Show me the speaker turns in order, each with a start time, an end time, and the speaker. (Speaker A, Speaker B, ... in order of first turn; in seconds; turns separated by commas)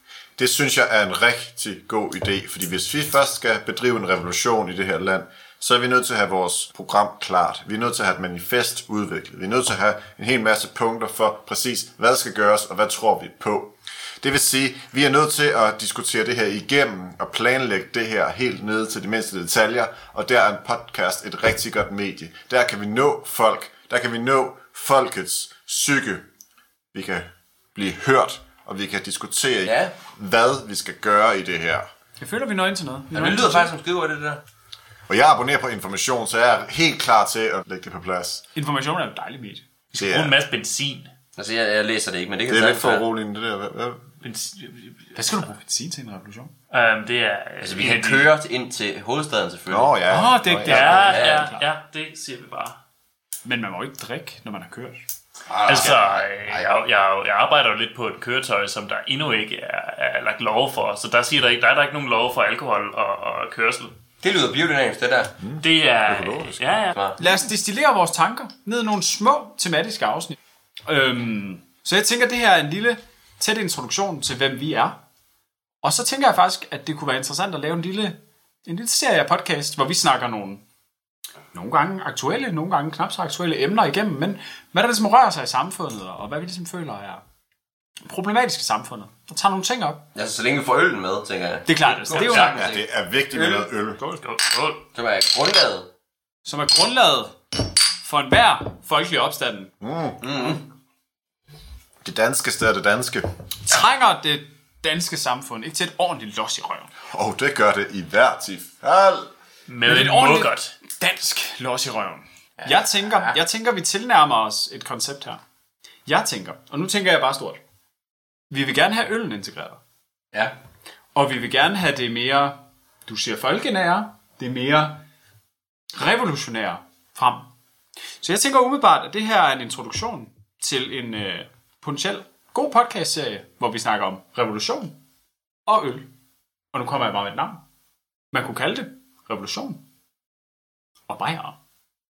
Speaker A: 0.4-26.3, Speaker A: 26.9-31.9, Speaker B: 29.6-29.9, Speaker C: 32.2-33.7, Speaker B: 33.1-34.4, Speaker A: 35.1-38.4, Speaker C: 38.5-39.6, Speaker D: 39.9-41.1, Speaker A: 40.0-40.4, Speaker B: 41.4-43.1, Speaker A: 42.5-44.0, Speaker D: 44.2-45.4, Speaker C: 45.1-46.5, Speaker D: 46.7-48.3, Speaker B: 47.6-49.9, Speaker A: 49.7-51.3, Speaker C: 50.1-51.6, Speaker D: 50.6-52.8, Speaker B: 50.9-51.5, Speaker C: 53.5-55.0, Speaker B: 55.5-56.7, Speaker D: 55.6-64.0, Speaker B: 64.2-65.4, Speaker A: 65.4-66.9, Speaker D: 65.6-67.0, Speaker B: 66.9-67.2, Speaker C: 67.2-75.0, Speaker C: 75.8-80.6, Speaker C: 81.5-87.2, Speaker C: 88.0-90.1, Speaker B: 90.1-92.8, Speaker C: 91.7-92.6, Speaker D: 92.1-92.6, Speaker A: 92.3-94.0, Speaker C: 93.3-94.2, Speaker D: 94.2-94.8, Speaker B: 94.9-95.9, Speaker C: 96.4-97.4, Speaker C: 98.0-99.7, Speaker A: 99.8-100.2, Speaker B: 100.2-100.6, Speaker A: 102.0-103.3, Speaker C: 103.7-106.9, Speaker A: 107.1-109.3, Speaker D: 109.7-110.7, Speaker C: 109.8-115.4, Speaker B: 112.6-113.3, Speaker C: 116.1-117.6, Speaker C: 118.5-119.8, Speaker C: 121.2-125.0, Speaker C: 125.9-127.5, Speaker C: 128.2-134.9, Speaker C: 135.7-136.1, Speaker C: 136.7-137.6, Speaker C: 138.3-139.8, Speaker C: 141.1-141.6